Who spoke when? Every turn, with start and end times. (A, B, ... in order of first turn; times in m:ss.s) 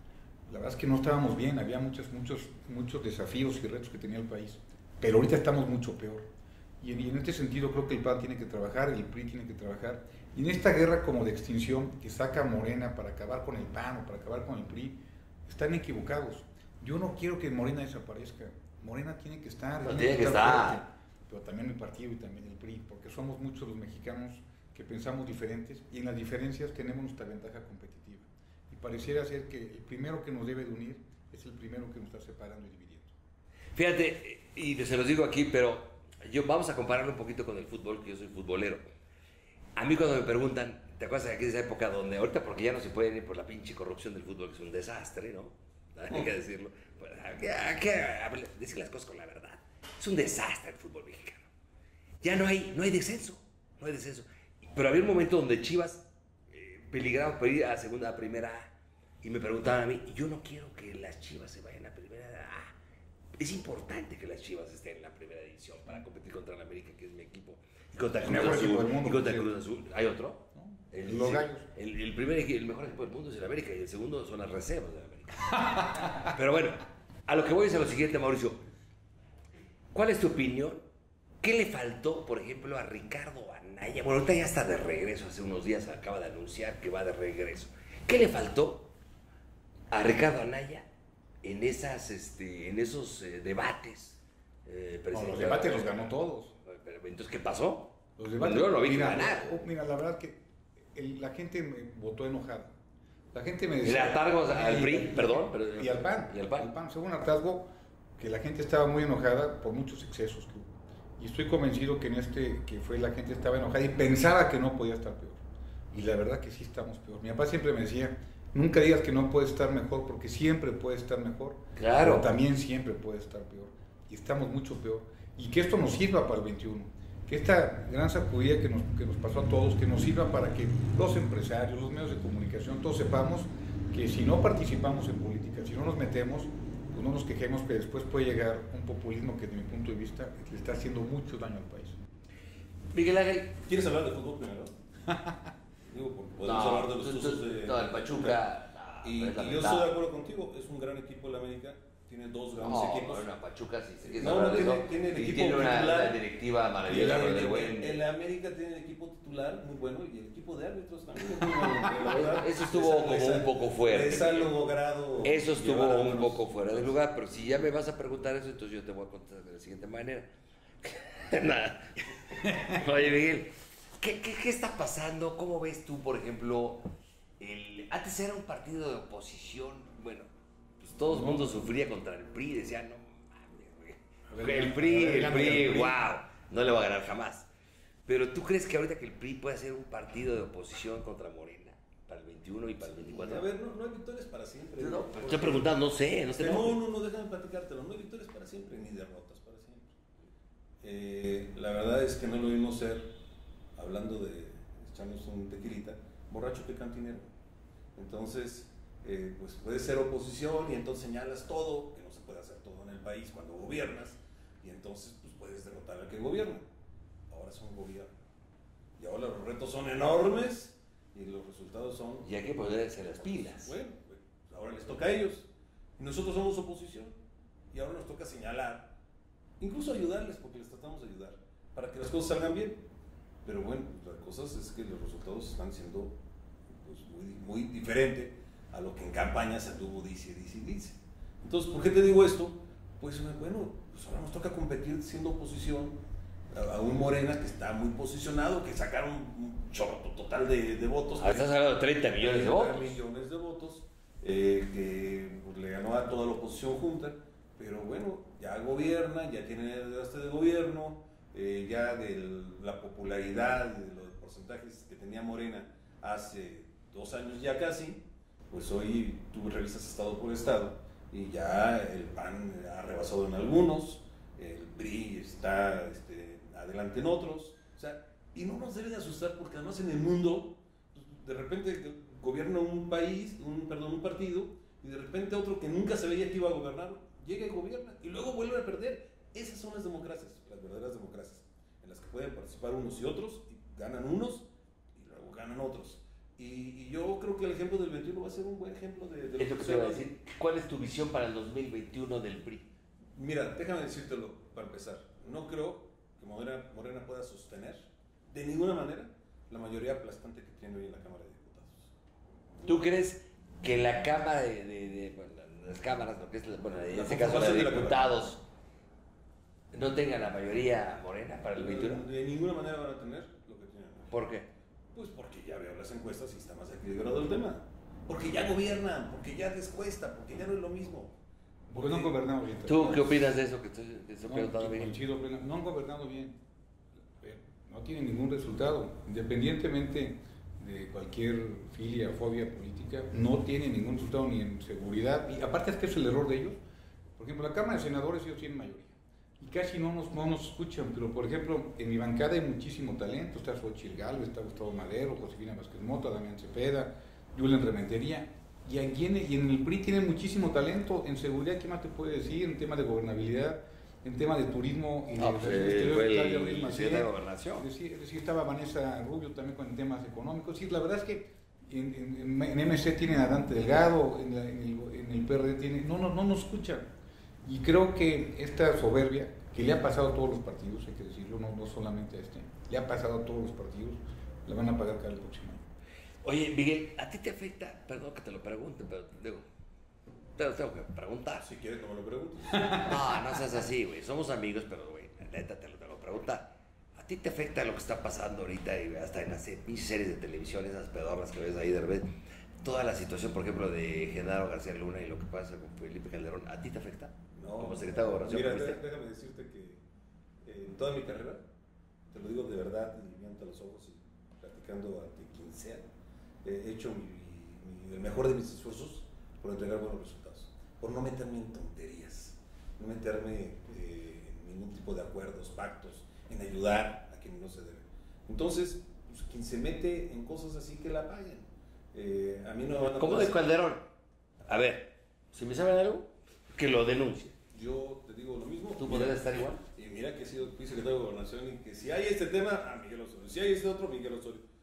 0:00.5-0:33.1 A
0:19.8-0:20.8 B
0:33.8-0:38.8 B
0:39.8-0:51.5 B
0:52.2-1:02.7 B
1:03.4-1:18.6 B
1:08.2-1:09.5 A
1:10.5-1:11.7 A
1:15.6-1:16.2 A
1:19.9-1:20.8 B
1:21.4-1:28.9 B
1:29.9-1:30.9 B
1:31.4-1:35.9 B
1:35.1-1:36.5 A
1:36.6-1:39.6 B
1:38.2-1:40.4 A
1:40.9-1:42.7 A
1:43.3-2:22.0 A
1:43.8-1:46.7 B
2:01.8-2:02.3 B
2:22.9-2:23.6 B
2:23.6-2:24.7 C
2:25.1-2:25.5 A
2:25.9-2:28.5 C
2:26.4-2:29.9 B
2:29.0-2:33.3 C
2:32.6-2:38.0 B
2:34.0-2:36.2 C
2:36.8-2:47.0 C
2:36.9-2:37.2 A
2:41.6-2:42.2 A
2:42.0-2:44.6 B
2:45.2-2:50.3 B
2:50.8-3:00.3 B
2:52.4-2:52.8 A
3:00.8-3:07.5 B
3:01.1-3:01.7 A
3:04.3-3:06.0 A
3:08.0-3:13.5 B
3:12.8-3:15.7 C
3:14.8-3:16.8 B
3:16.3-3:19.9 C
3:20.8-3:23.2 C
3:23.8-3:27.3 C
3:28.0-3:36.7 C
3:37.3-3:38.1 C
3:39.0-3:42.3 C
3:42.2-3:43.8 B
3:43.2-3:47.2 C
3:47.7-3:49.0 C
3:49.6-3:52.8 C
3:53.4-3:56.2 C
3:56.7-4:06.0 C
4:06.5-5:00.1 C
4:11.2-4:13.0 B
4:59.4-5:02.7 B
5:03.2-5:11.9 C
5:12.6-5:18.4 B
5:16.9-5:18.3 C
5:19.7-5:22.0 B
5:21.6-5:24.1 C
5:24.1-5:24.5 B
5:24.9-5:31.2 C
5:31.7-5:33.3 A
5:31.7-5:32.2 C
5:32.6-5:35.0 B
5:34.3-5:36.4 A
5:37.1-5:46.6 A
5:47.2-6:16.9 A
6:05.2-6:07.7 B
6:17.4-6:25.6 A
6:26.2-6:29.4 B
6:30.4-6:31.5 B
6:31.4-6:33.0 C
6:32.5-6:33.0 A
6:32.8-6:42.1 B
6:42.6-6:48.8 B
6:47.3-6:49.8 C
6:50.4-6:51.4 C
6:52.1-6:55.9 C
6:56.4-7:13.5 C
7:13.0-7:13.9 B
7:14.4-7:17.4 B
7:17.5-7:24.4 C
7:18.8-7:19.6 B